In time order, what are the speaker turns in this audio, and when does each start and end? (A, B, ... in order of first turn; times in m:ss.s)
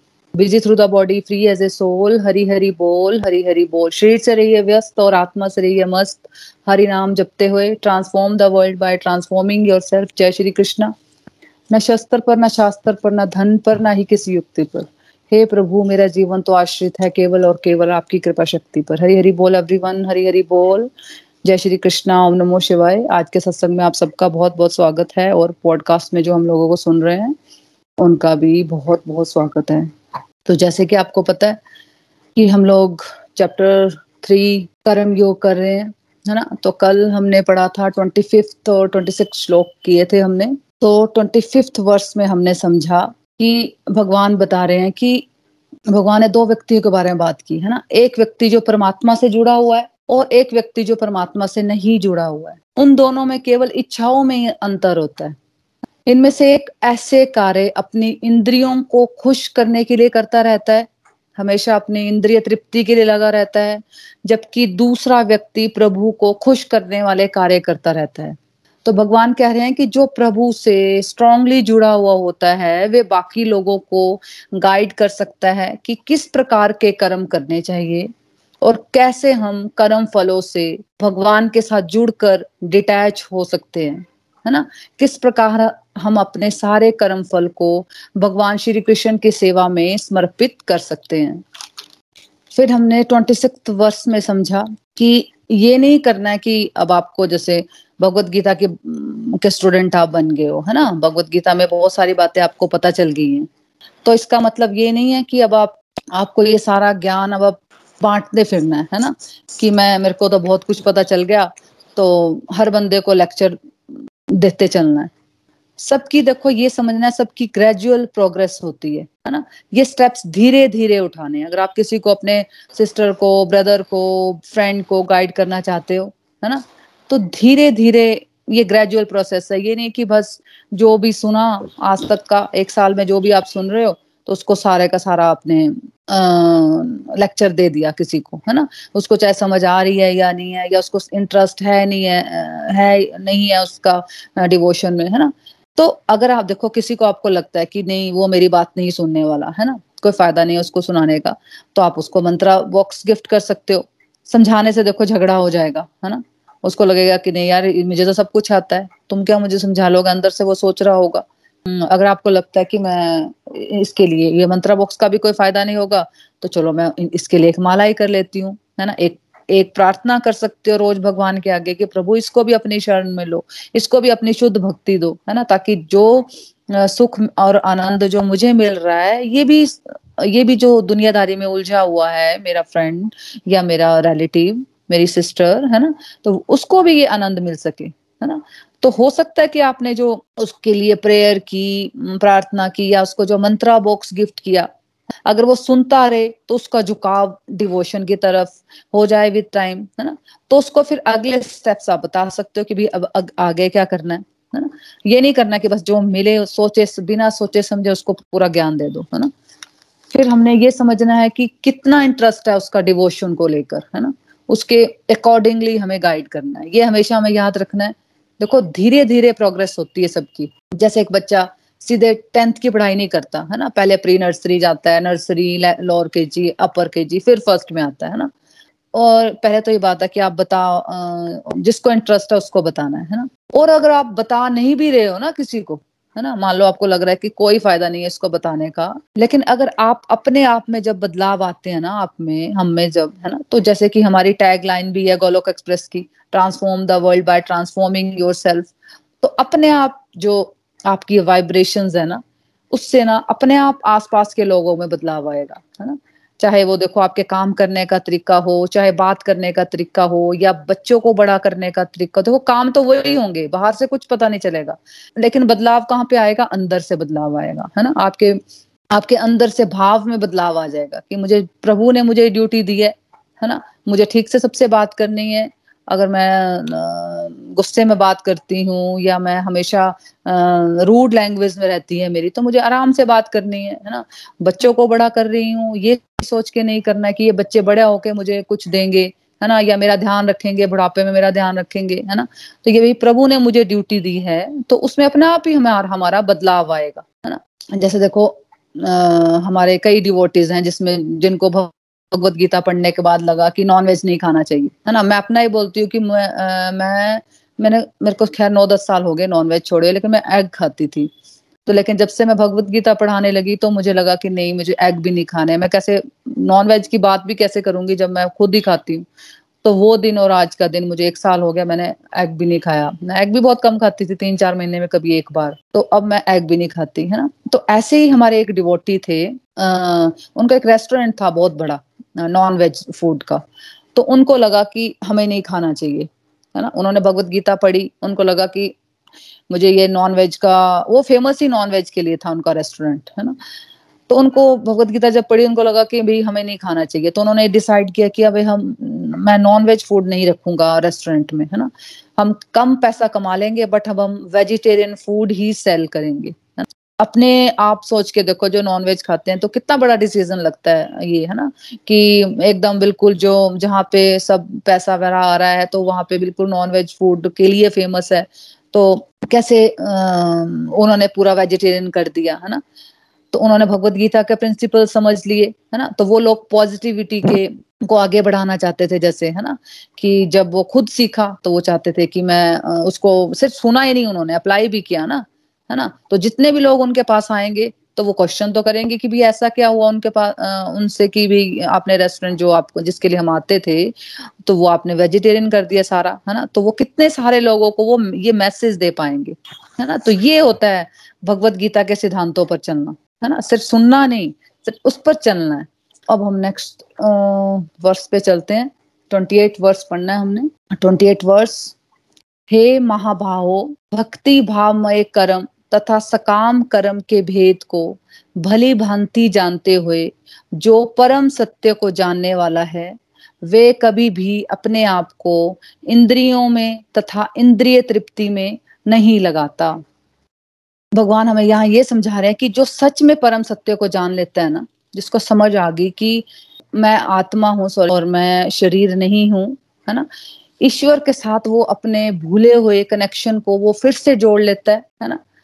0:00.3-0:10.9 A
0:11.7-0:20.9 A
0:21.4-0:27.4 A
0:28.0-0:29.9 A
0:30.4-0:31.6 A
0:32.4-0:45.2 A
0:45.9-0:55.4 A
0:56.1-1:18.1 A
1:18.6-1:31.4 A
1:32.5-1:43.5 A
1:44.0-1:53.6 A
1:54.3-1:55.1 A
1:55.8-3:14.7 A
3:15.2-3:29.3 A
3:30.1-3:48.3 A
3:48.9-4:08.7 A
4:09.2-4:28.4 A
4:28.9-5:11.1 A
5:11.6-5:19.0 A
5:19.6-5:33.4 A
5:33.9-5:38.7 A
5:39.5-5:43.4 A
5:44.1-6:12.6 A
6:13.3-6:33.9 A
6:34.4-6:51.7 A
6:52.5-7:09.8 A
7:10.9-7:20.1 A
7:20.6-7:25.2 A